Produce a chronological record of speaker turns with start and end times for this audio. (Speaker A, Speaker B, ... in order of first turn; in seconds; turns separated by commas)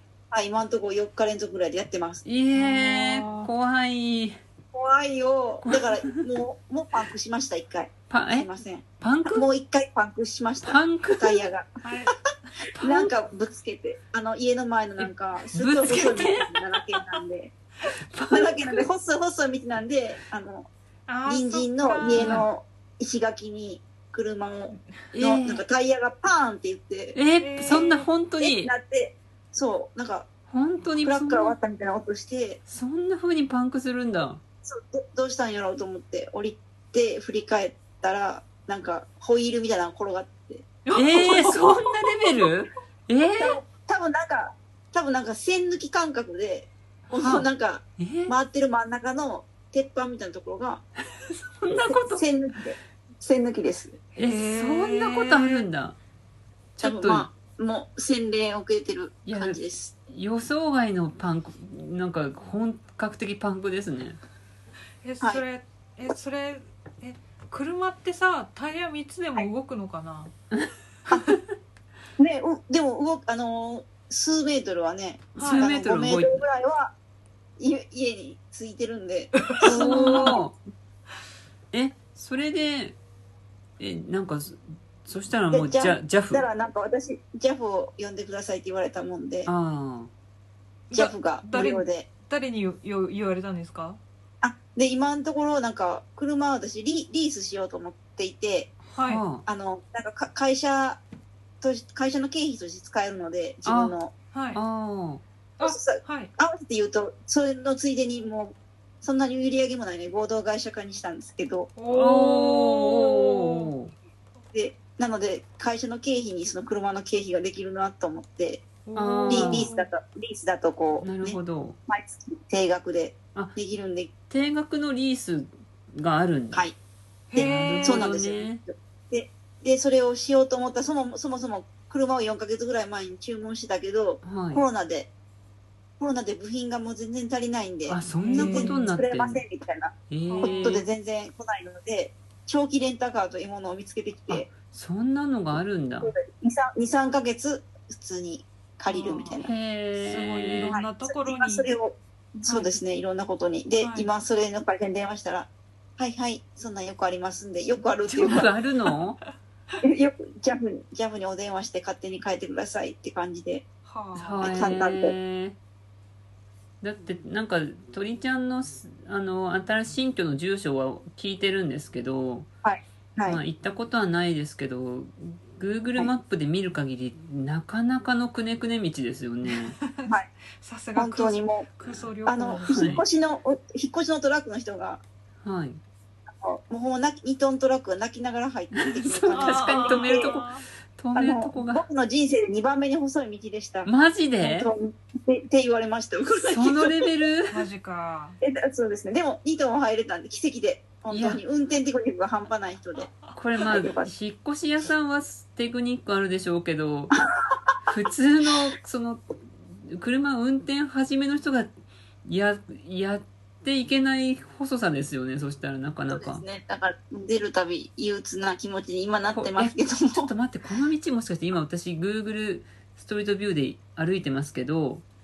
Speaker A: 0.3-2.2, Speaker B: 2.2-4.4, Speaker C: 2.5-3.5, Speaker A: 4.7-11.8, Speaker B: 5.7-5.9, Speaker B: 8.1-8.5, Speaker B: 9.0-9.4, Speaker B: 10.6-11.4, Speaker C: 11.8-12.1, Speaker B: 12.8-13.1, Speaker A: 12.8-17.5, Speaker B: 15.0-16.5, Speaker B: 18.1-18.9, Speaker A: 18.3-20.7, Speaker C: 21.1-22.5, Speaker A: 21.3-27.2, Speaker B: 22.1-22.5, Speaker B: 25.1-25.6, Speaker B: 27.1-28.7, Speaker C: 27.4-28.1, Speaker A: 28.4-30.3, Speaker B: 30.5-31.6, Speaker A: 31.0-32.6, Speaker B: 32.7-34.4, Speaker A: 34.6-40.7, Speaker C: 40.9-41.9, Speaker B: 40.9-43.6, Speaker A: 43.4-50.9, Speaker B: 47.1-47.5, Speaker B: 48.0-48.3, Speaker B: 51.5-52.2, Speaker A: 52.1-54.0, Speaker C: 54.2-55.7, Speaker B: 54.2-56.0, Speaker B: 56.8-57.3, Speaker A: 56.8-59.9, Speaker B: 59.3-64.2, Speaker C: 65.0-70.3, Speaker A: 72.2-76.9, Speaker C: 75.4-75.7, Speaker B: 75.4-76.4, Speaker A: 77.6-80.4, Speaker C: 79.4-80.4, Speaker B: 79.6-80.6, Speaker B: 81.7-83.0, Speaker B: 83.8-86.5, Speaker A: 85.5-89.5, Speaker B: 89.5-90.1, Speaker C: 90.9-94.0, Speaker A: 90.9-92.1, Speaker A: 94.4-98.8, Speaker C: 98.9-99.2, Speaker B: 99.0-99.5, Speaker A: 99.5-101.0, Speaker A: 101.6-104.1, Speaker B: 103.7-104.0, Speaker C: 104.3-104.6, Speaker B: 104.5-105.2, Speaker C: 105.6-106.3, Speaker A: 105.6-111.7, Speaker C: 111.8-113.7, Speaker B: 111.9-113.9, Speaker A: 114.5-118.7, Speaker C: 118.9-119.9, Speaker B: 119.0-119.7, Speaker A: 119.3-124.1, Speaker B: 121.0-121.8, Speaker B: 124.3-126.7, Speaker C: 127.3-128.1, Speaker B: 127.3-128.6, Speaker A: 127.8-135.1, Speaker B: 134.2-134.6, Speaker A: 136.0-144.5, Speaker B: 137.9-139.4, Speaker C: 138.1-138.9, Speaker B: 140.1-140.9, Speaker C: 140.2-140.8, Speaker B: 144.3-146.1, Speaker A: 146.0-149.5, Speaker C: 148.9-149.4, Speaker B: 149.4-150.8, Speaker C: 150.0-151.7, Speaker A: 150.7-158.5, Speaker C: 152.5-152.8, Speaker C: 153.8-154.1, Speaker B: 158.1-159.2, Speaker A: 159.8-163.7, Speaker C: 163.9-164.6, Speaker B: 164.2-165.6, Speaker A: 164.4-165.2, Speaker B: 166.8-172.5, Speaker A: 172.7-173.4, Speaker B: 173.2-179.8, Speaker C: 179.5-182.9, Speaker A: 181.0-181.7, Speaker A: 182.3-185.0, Speaker B: 182.7-183.1, Speaker B: 185.4-185.8, Speaker A: 186.4-190.4, Speaker B: 188.8-190.5, Speaker C: 189.3-190.7, Speaker B: 191.0-191.8, Speaker A: 191.1-197.1, Speaker B: 193.9-194.7, Speaker B: 196.4-197.7, Speaker C: 197.5-198.4, Speaker A: 198.4-204.1, Speaker B: 201.1-201.4, Speaker B: 203.4-207.2, Speaker B: 207.9-211.7, Speaker B: 212.2-216.4, Speaker A: 216.1-220.3, Speaker B: 219.3-225.0